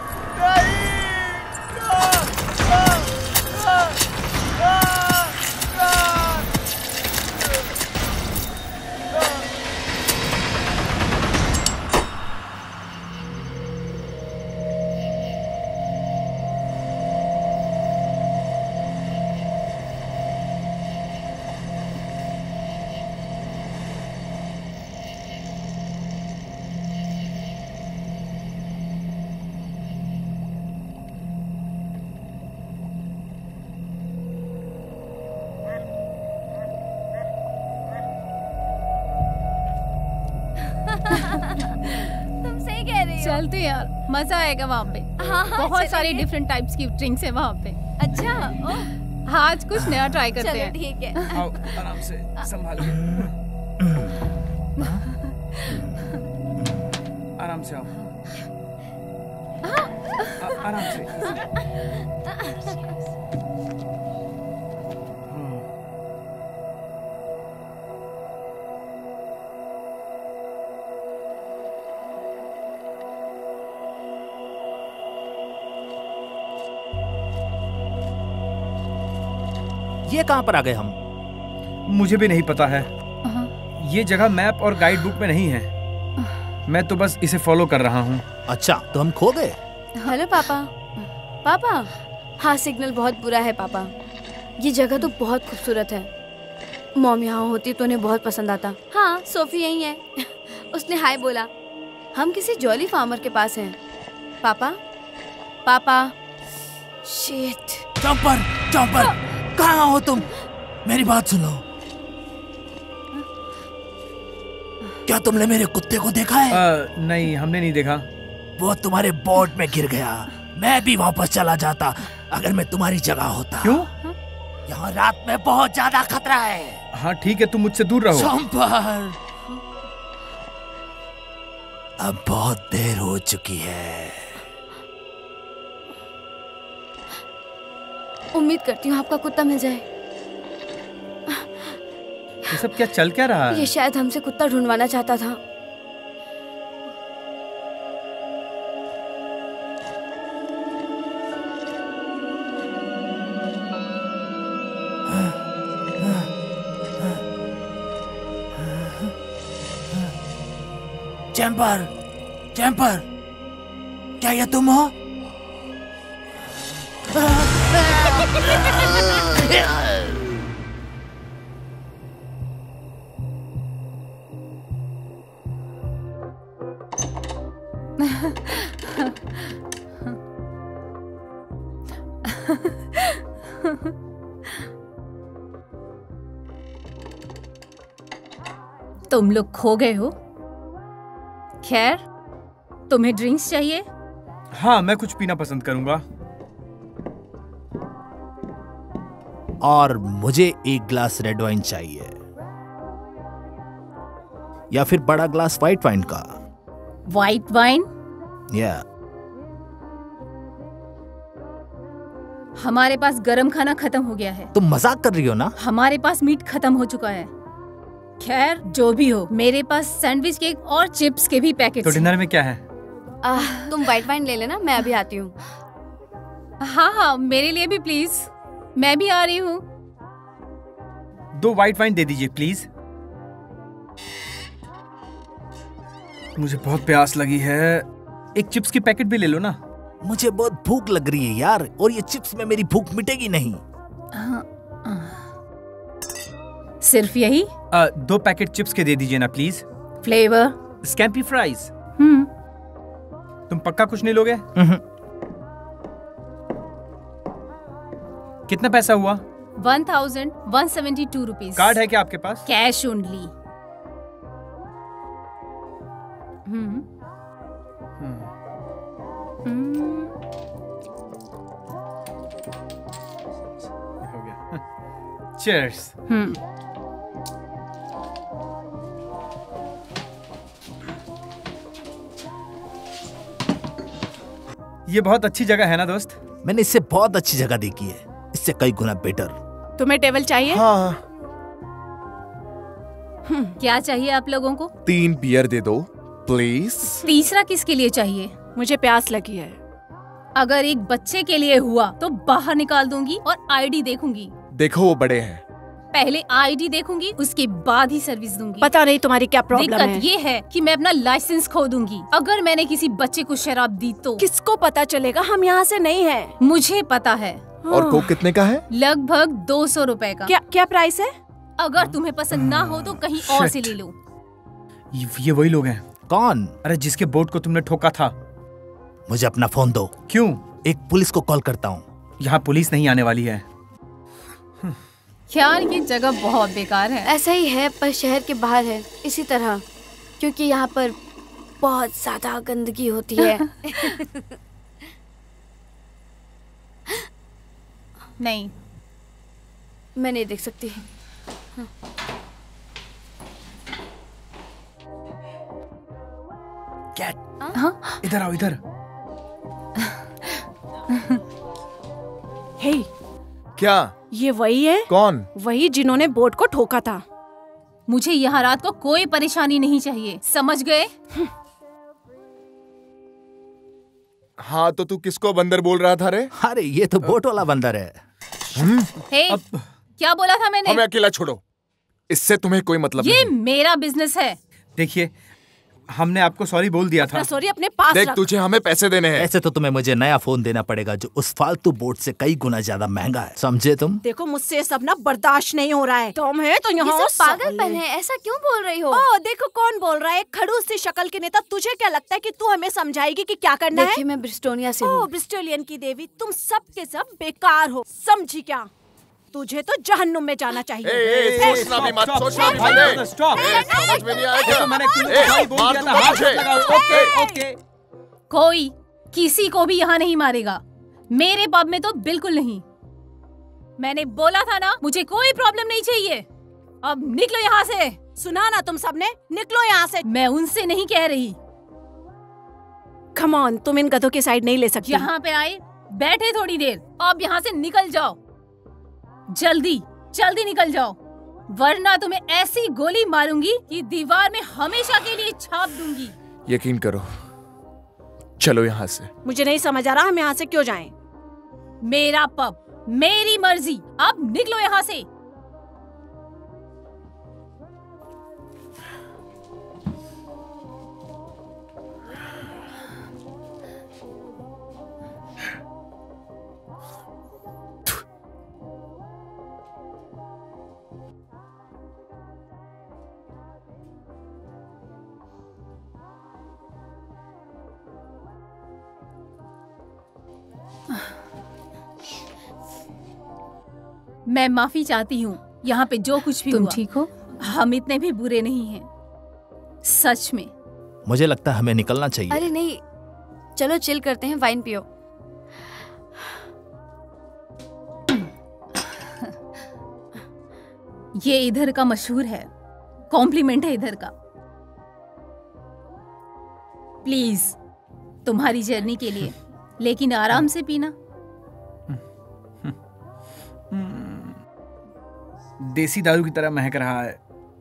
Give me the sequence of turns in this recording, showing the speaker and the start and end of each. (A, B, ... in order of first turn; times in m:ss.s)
0:00.4-0:04.0 A
0:04.6-0:06.5 A
0:40.9-0:43.4 B
0:43.2-0:47.8 C
0:45.2-0:46.3 B
0:48.0-0:48.9 B
0:49.3-0:51.3 C
0:50.4-0:51.6 B
0:51.3-0:53.3 D
0:53.8-0:55.0 E
0:55.7-0:56.0 E
0:56.6-0:56.9 E
0:57.4-0:58.0 D
1:00.4-1:01.4 D
1:05.3-1:05.7 D
1:20.1-1:21.0 E
1:21.9-1:22.9 D
1:23.3-1:23.5 C
1:23.8-1:25.7 D
1:26.7-1:28.2 D
1:28.5-1:29.6 E
1:30.0-1:30.7 B
1:31.4-1:33.9 B
1:34.6-1:36.1 B
1:37.0-1:41.5 B
1:42.2-1:43.8 B
1:44.4-1:44.8 B
1:45.7-1:46.1 B
1:47.0-1:47.9 B
1:48.0-1:50.3 E
1:50.8-1:51.6 E
1:55.1-1:56.6 E
1:56.5-1:58.1 D
1:58.6-2:03.9 E
2:03.6-2:03.9 D
2:04.7-2:06.8 E
2:06.9-2:08.3 D
2:08.1-2:09.2 E
2:12.0-2:14.4 E
2:18.3-2:19.8 B
2:21.3-2:21.8 B
2:22.5-2:23.7 D
2:23.5-2:25.4 B
2:36.0-2:36.3 E
2:38.6-2:39.1 E
2:41.3-2:41.9 E
2:42.5-2:43.0 E
2:44.2-2:44.9 E
2:47.2-2:50.3 E
2:58.1-2:58.6 C
3:02.3-3:02.7 C
3:09.1-3:10.2 C
3:11.6-3:12.0 C
3:12.9-3:13.9 C
3:14.5-3:16.0 D
3:19.6-3:22.2 E
3:24.7-3:26.4 E
3:27.1-3:27.9 C
3:28.5-3:28.8 E
3:32.6-3:34.5 C
3:34.5-3:35.6 E
3:35.6-3:37.3 C
3:38.2-3:42.1 C
3:41.8-3:42.6 D
3:43.2-3:45.4 B
3:46.6-3:49.6 C
3:51.3-3:52.7 D
3:56.4-3:59.6 D
4:00.0-4:03.6 E
4:04.1-4:05.3 C
4:06.8-4:07.5 C
4:07.7-4:09.6 D
4:10.0-4:10.6 C
4:10.8-4:11.7 D
4:12.0-4:12.3 C
4:13.5-4:14.4 D
4:14.6-4:14.8 E
4:18.5-4:19.2 D
4:19.6-4:21.8 C
4:21.6-4:22.4 D
4:22.5-4:23.3 C
4:26.5-4:26.8 C
4:28.0-4:28.3 D
4:29.5-4:30.1 C
4:34.0-4:34.6 D
4:35.4-4:36.0 D
4:36.1-4:36.4 C
4:44.9-4:46.2 D
4:46.4-4:49.3 E
4:49.8-4:50.6 F
4:50.5-4:51.0 A
4:53.6-4:54.7 C
4:54.8-4:57.0 A
4:57.0-4:58.3 C
4:58.6-4:59.6 F
5:00.4-5:04.3 C
5:04.5-5:05.4 A
5:05.9-5:08.7 C
5:08.6-5:10.0 F
5:09.5-5:14.2 C
5:14.2-5:16.3 F
5:16.4-5:17.4 C
5:17.6-5:18.2 F
5:17.7-5:18.6 A
5:18.7-5:20.4 C
5:20.3-5:21.1 F
5:21.6-5:24.0 C
5:21.8-5:23.8 D
5:24.9-5:25.8 D
5:26.1-5:26.6 E
5:26.6-5:28.1 D
5:29.1-5:30.0 E
5:30.1-5:30.4 D
5:30.6-5:31.9 E
5:32.2-5:33.4 D
5:35.3-5:37.1 C
5:37.1-5:39.6 B
5:40.2-5:41.0 B
5:41.6-5:44.2 B
5:48.2-5:48.5 C
5:50.0-5:50.8 B
5:57.6-5:58.0 C
5:58.0-5:58.6 D
6:02.6-6:02.9 F
6:03.6-6:04.0 A
6:04.1-6:07.0 F
6:04.9-6:05.3 A
6:07.9-6:10.9 C
6:14.4-6:16.3 A
6:16.4-6:18.0 E
6:18.6-6:18.9 A
6:19.1-6:19.4 C
6:19.3-6:19.6 D
6:20.0-6:20.8 C
6:20.6-6:21.4 A
6:22.1-6:23.3 A
6:23.0-6:24.4 C
6:24.8-6:25.1 D
6:25.9-6:27.3 D
6:27.0-6:28.3 F
6:27.9-6:29.3 A
6:29.2-6:34.0 E
6:34.0-6:37.8 F
6:36.8-6:39.0 B
6:38.9-6:44.0 F
6:43.7-6:45.1 B
6:44.8-6:48.7 F
6:49.3-6:57.5 F
6:50.8-6:57.1 A
6:51.0-6:53.7 D
6:53.6-6:54.1 B
6:54.4-6:57.6 D
6:58.3-7:02.6 C
7:03.8-7:06.2 C
7:06.8-7:08.0 C
7:08.2-7:10.1 F
7:10.0-7:11.4 C
7:13.2-7:15.1 F
7:14.8-7:18.2 C
7:19.3-7:21.0 C
7:21.5-7:26.2 C
7:26.5-7:27.2 A
7:28.4-7:29.1 A
7:29.2-7:30.9 F
7:31.8-7:35.1 C
8:04.3-8:08.9 C
8:06.5-8:06.8 B
8:09.8-8:10.5 C
8:11.1-8:12.5 E
8:12.3-8:12.8 B
8:13.6-8:14.9 B
8:18.9-8:19.3 C
8:21.2-8:22.5 C
8:23.1-8:24.1 C
8:27.0-8:27.6 C
8:28.2-8:30.9 C
8:33.7-8:34.4 D
8:35.6-8:37.2 D